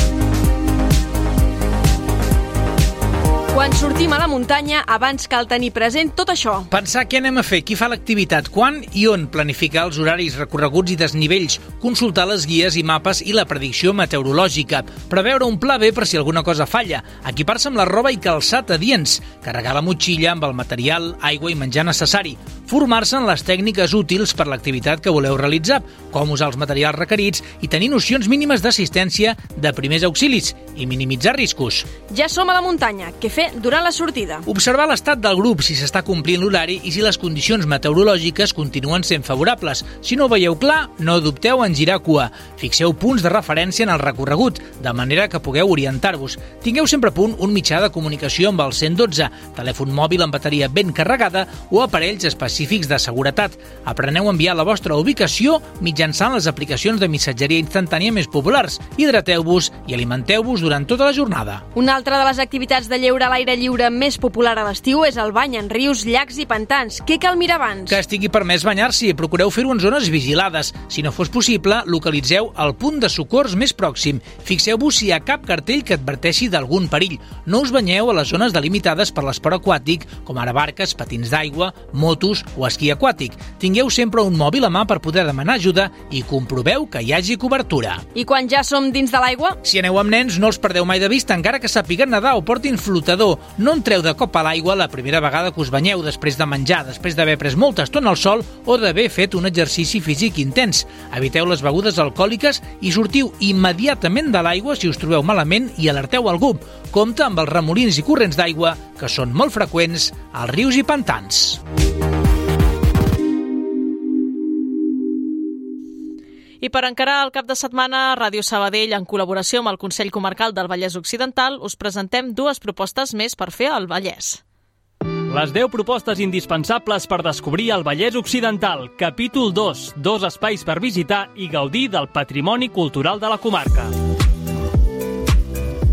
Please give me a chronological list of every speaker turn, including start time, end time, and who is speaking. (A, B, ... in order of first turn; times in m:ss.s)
0:03.5-0:06.7 A
0:06.7-0:31.9 B
0:32.1-0:34.4 A
0:34.4-1:01.6 B
1:01.7-1:08.0 A
1:07.9-1:28.0 B
1:28.1-1:29.6 A
1:29.6-1:51.6 B
1:56.6-2:04.4 C
2:05.3-2:13.9 D